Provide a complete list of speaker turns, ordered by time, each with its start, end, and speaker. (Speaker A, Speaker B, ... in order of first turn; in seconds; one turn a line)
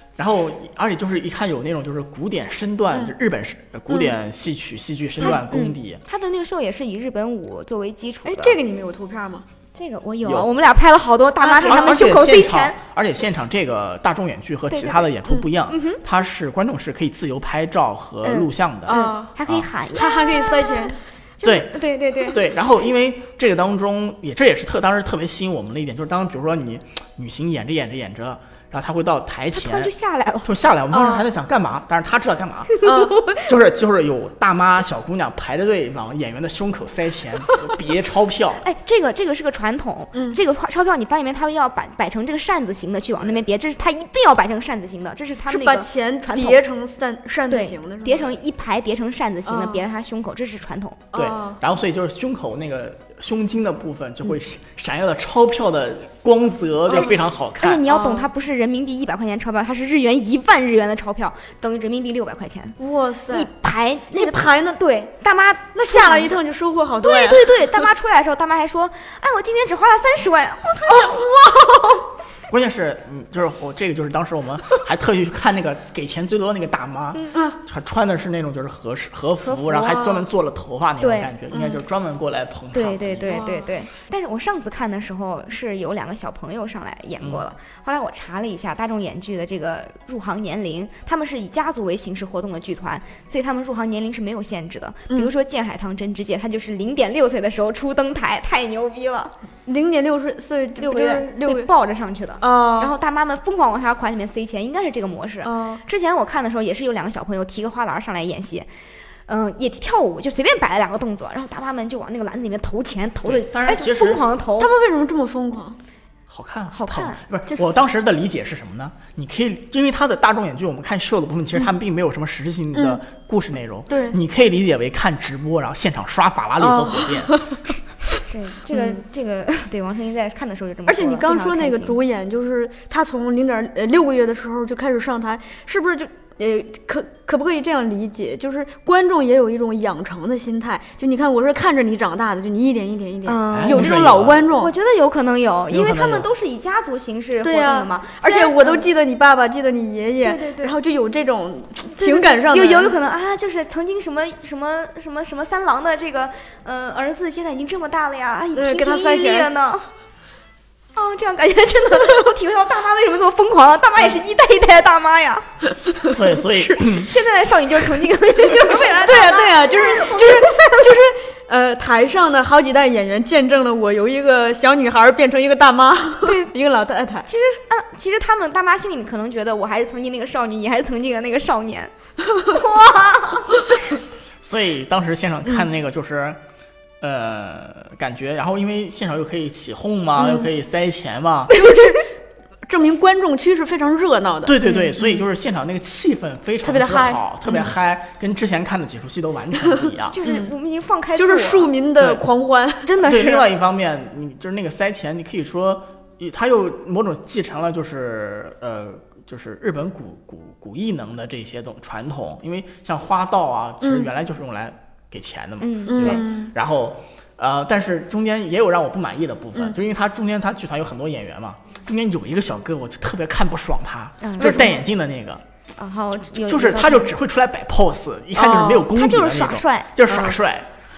Speaker A: 0.2-6.0
Speaker B: 2.9-3.2
Speaker B: 3.9-4.2
Speaker C: 5.2-8.6
Speaker B: 8.2-9.4
Speaker C: 9.8-12.8
Speaker B: 11.4-12.2
Speaker A: 11.6-19.7
Speaker C: 14.7-15.1
Speaker C: 15.7-16.0
Speaker C: 18.2-22.5
Speaker B: 18.9-19.3
Speaker B: 19.9-21.0
Speaker A: 21.4-29.9
Speaker C: 29.5-30.6
Speaker A: 30.4-32.8
Speaker B: 30.9-31.2
Speaker B: 32.8-33.2
Speaker C: 32.8-33.4
Speaker A: 33.4-38.6
Speaker C: 38.6-46.6
Speaker B: 40.1-40.4
Speaker B: 45.5-48.4
Speaker C: 47.5-51.1
Speaker B: 49.5-49.8
Speaker B: 51.1-51.6
Speaker A: 51.1-57.8
Speaker B: 56.9-57.2
Speaker C: 57.0-62.8
Speaker B: 57.9-58.3
Speaker B: 62.8-63.5
Speaker C: 63.3-66.4
Speaker B: 64.1-65.1
Speaker B: 65.7-67.9
Speaker C: 67.0-72.0
Speaker A: 72.5-83.4
Speaker B: 77.3-77.6
Speaker C: 79.4-80.2
Speaker B: 79.8-80.2
Speaker C: 81.0-81.3
Speaker B: 81.5-81.8
Speaker C: 82.7-99.3
Speaker B: 83.3-83.7
Speaker B: 99.7-101.7
Speaker C: 100.8-108.7
Speaker B: 102.4-103.0
Speaker B: 105.4-105.8
Speaker C: 109.3-114.7
Speaker A: 113.2-114.2
Speaker B: 113.7-114.0
Speaker B: 114.6-115.8
Speaker A: 116.3-127.4
Speaker C: 116.7-117.2
Speaker B: 122.7-123.0
Speaker B: 123.9-124.2
Speaker B: 126.6-127.7
Speaker C: 128.2-132.0
Speaker B: 128.7-129.0
Speaker B: 130.9-144.7
Speaker C: 143.2-148.9
Speaker A: 143.5-144.4
Speaker A: 145.7-146.3
Speaker B: 147.4-153.0
Speaker C: 150.2-150.8
Speaker C: 152.0-159.9
Speaker B: 158.6-159.5
Speaker C: 160.9-165.5
Speaker A: 166.1-167.1
Speaker C: 166.8-171.0
Speaker B: 168.6-177.3
Speaker C: 176.2-176.5
Speaker C: 177.3-181.9
Speaker C: 182.5-183.5
Speaker A: 184.4-186.4
Speaker A: 187.0-191.6
Speaker B: 190.2-190.5
Speaker B: 191.5-192.1
Speaker B: 192.7-195.2
Speaker A: 194.4-200.2
Speaker B: 196.6-197.7
Speaker C: 200.1-201.7
Speaker B: 200.2-200.5
Speaker B: 201.2-203.1
Speaker C: 202.8-203.5
Speaker A: 203.0-225.4
Speaker B: 213.8-214.1
Speaker C: 215.6-216.3
Speaker B: 215.9-216.6
Speaker C: 224.2-224.8
Speaker B: 224.4-224.8
Speaker C: 225.8-227.1
Speaker A: 226.4-230.7
Speaker B: 228.4-228.9
Speaker C: 228.9-230.3
Speaker B: 230.1-230.4